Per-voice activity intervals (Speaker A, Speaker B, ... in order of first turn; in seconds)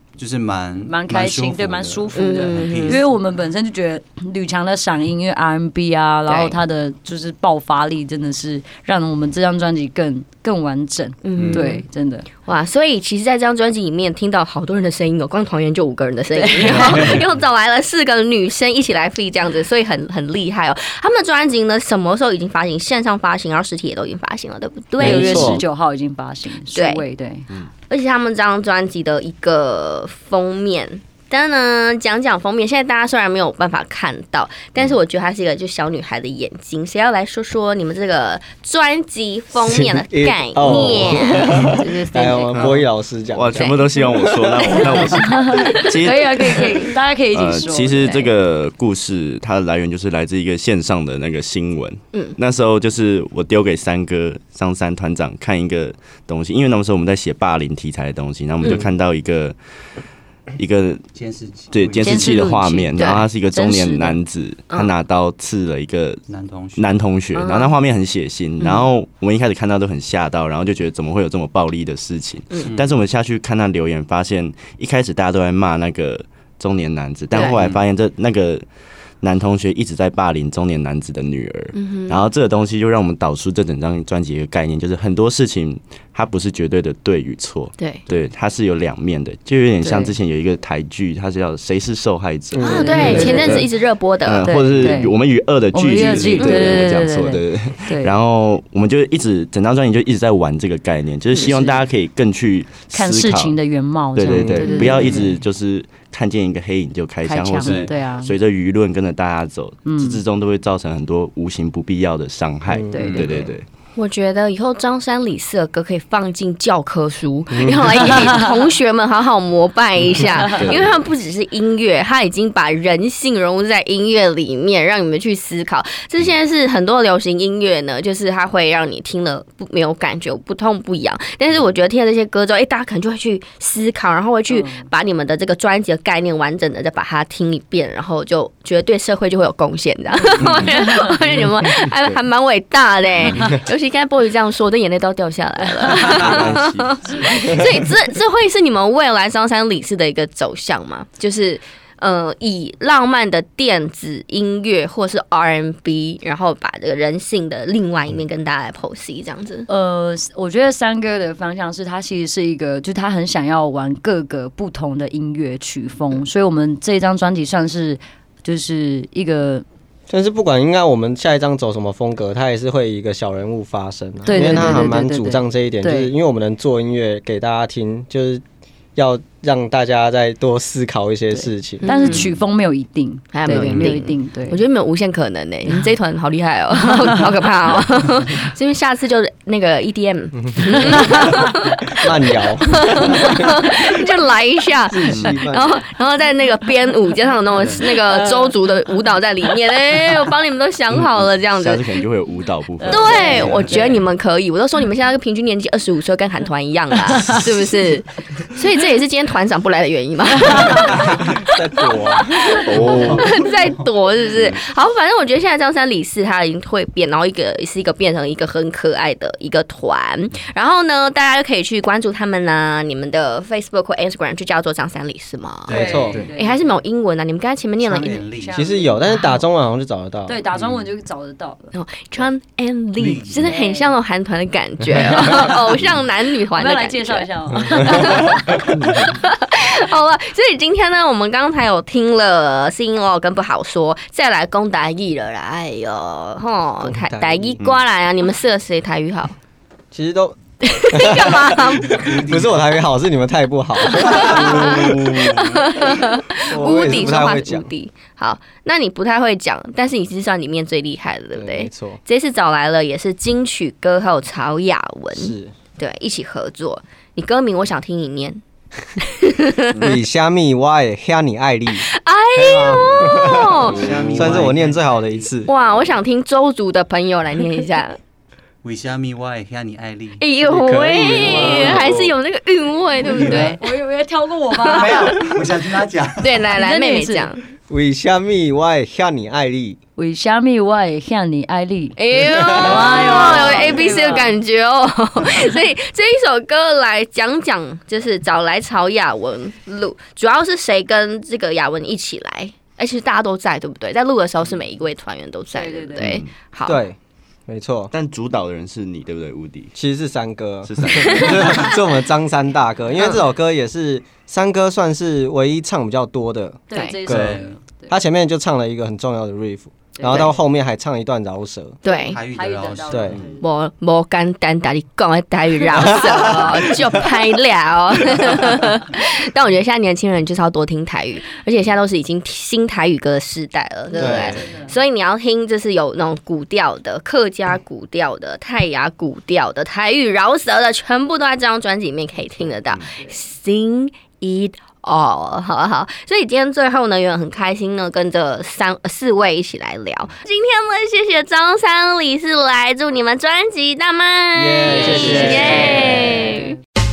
Speaker A: 0.1-3.1, 11.4-11.7, 16.7-17.2, 61.1-62.4, 66.3-67.0, 72.6-73.0, 104.7-105.3, 107.6-107.9, 112.9-113.3, 197.6-197.8, 203.4-203.9, 225.7-226.3, 227.8-228.6, 230.5-230.8, 233.0-233.5, 252.0-252.6, 273.6-275.3, 278.6-280.2, 283.0-283.6, 284.6-286.5, 292.9-293.5, 317.1-317.5, 321.9-323.1, 334.1-334.4
Speaker B: 0.8-12.3, 16.3-17.1, 25.0-27.5, 41.7-42.8, 45.2-48.3, 62.0-64.2, 89.8-90.1, 92.7-93.7, 94.4-95.1, 95.7-98.1, 101.5-101.8, 102.9-105.2, 107.2-108.3, 109.8-110.2, 112.9-113.5, 134.5-134.8, 159.7-169.6, 174.2-176.1, 181.3-184.6, 202.8-203.7, 225.7-226.6, 228.4-229.3, 230.2-231.8, 233.4-233.9, 234.9-235.7, 236.5-238.3, 281.3-281.7, 283.3-285.2, 286.6-287.3, 290.0-294.4, 305.5-306.1, 316.7-317.9, 320.0-320.3, 322.3-323.4, 334.0-334.8, 355.1-356.4
Speaker C: 2.1-3.0, 6.3-6.6, 11.2-11.8, 12.4-25.6, 26.7-27.0, 27.9-42.3, 43.5-43.8, 45.4-45.9, 58.6-58.9, 63.0-63.2, 67.3-67.7, 68.6-68.9, 77.3-77.8, 81.7-82.3, 92.6-94.5, 96.2-96.6, 101.3-101.6, 114.0-159.7, 174.3-174.9, 181.8-182.3, 183.3-201.9, 202.9-211.3, 212.0-225.8, 226.3-228.2, 231.7-249.3, 250.6-252.1, 253.8-268.4, 269.0-269.9, 271.8-273.9, 275.4-278.0, 280.2-283.6, 284.5-285.3, 286.2-287.4, 291.9-306.8, 311.1-311.6, 312.9-313.2, 316.7-317.0, 320.1-320.3, 321.8-322.2, 323.4-356.5
Speaker D: 25.0-25.6, 39.6-45.2, 92.5-93.6, 104.3-104.7, 112.7-113.2, 117.5-117.9, 170.1-178.4, 178.9-181.9, 183.5-183.8, 190.6-191.2, 192.0-193.5, 194.9-195.8, 210.9-212.4, 225.8-226.2, 228.5-230.4, 246.8-247.6, 249.9-250.4, 250.9-255.3, 256.4-257.7, 261.3-262.0, 265.1-265.5, 269.8-275.5, 280.4-281.9, 287.7-289.8, 292.3-292.9, 306.6-307.9, 309.7-321.8, 322.9-323.2, 334.0-334.3, 354.3-356.0
Speaker E: 43.3-59.5, 60.6-61.0, 61.7-66.2, 66.8-78.6, 79.2-93.7, 94.2-103.6, 104.1-113.7, 120.5-120.9, 146.2-147.0, 200.9-203.4, 212.6-213.3, 281.4-281.9, 306.0-306.3, 307.9-309.7, 310.6-311.8